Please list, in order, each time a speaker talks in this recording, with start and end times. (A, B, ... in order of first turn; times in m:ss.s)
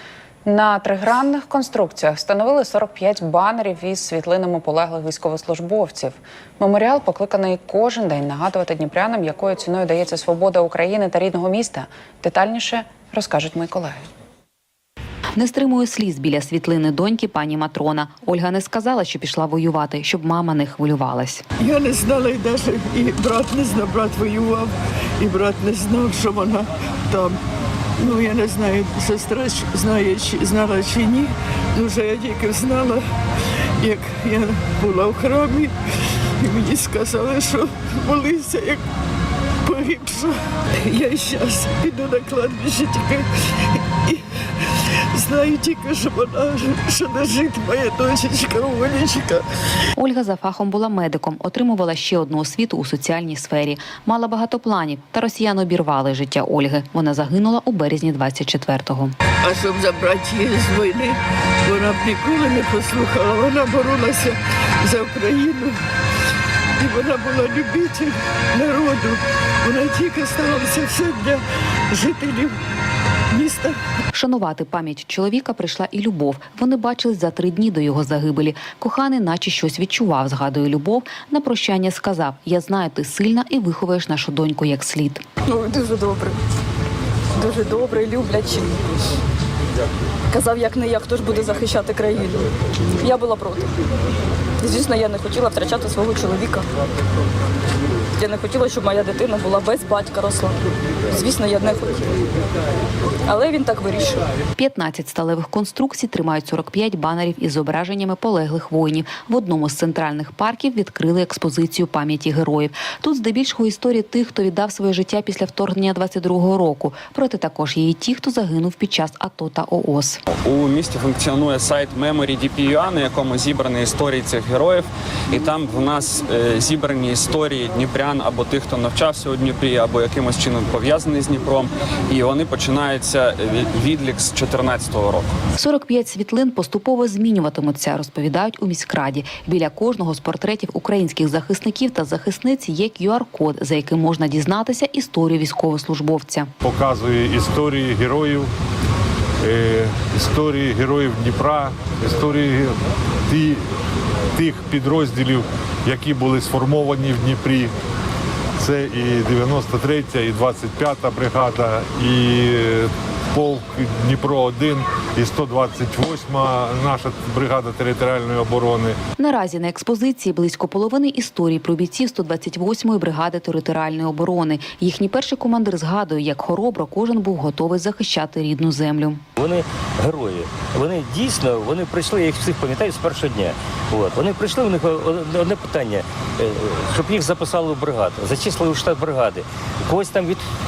0:00.4-0:14.0 A
0:15.4-0:21.4 B
0:21.6-0:27.4 C
0:28.0-0:33.0 C
0:33.8-0:35.7 C
0:36.4-0:38.8 C
0:39.6-0:49.4 C
0:50.0-0:59.1 B
0:59.4-1:05.8 C
1:06.8-1:12.6 C
1:13.3-1:13.8 C
1:14.1-1:25.2 B
1:25.5-1:26.4 D
1:27.4-1:28.7 D
1:30.3-1:32.5 D
1:33.0-1:33.7 D
1:34.6-1:36.6 D
1:38.2-1:40.6 D
1:41.1-1:42.0 D
1:43.3-1:44.2 D
1:44.6-2:00.2 B
2:00.3-2:15.3 E
2:15.6-2:26.5 B
2:26.6-2:28.5 F
2:29.4-2:32.7 F
2:33.3-2:33.6 F
2:34.3-2:37.7 F
2:38.6-2:49.0 F
2:49.2-2:59.2 B
2:59.4-3:10.4 G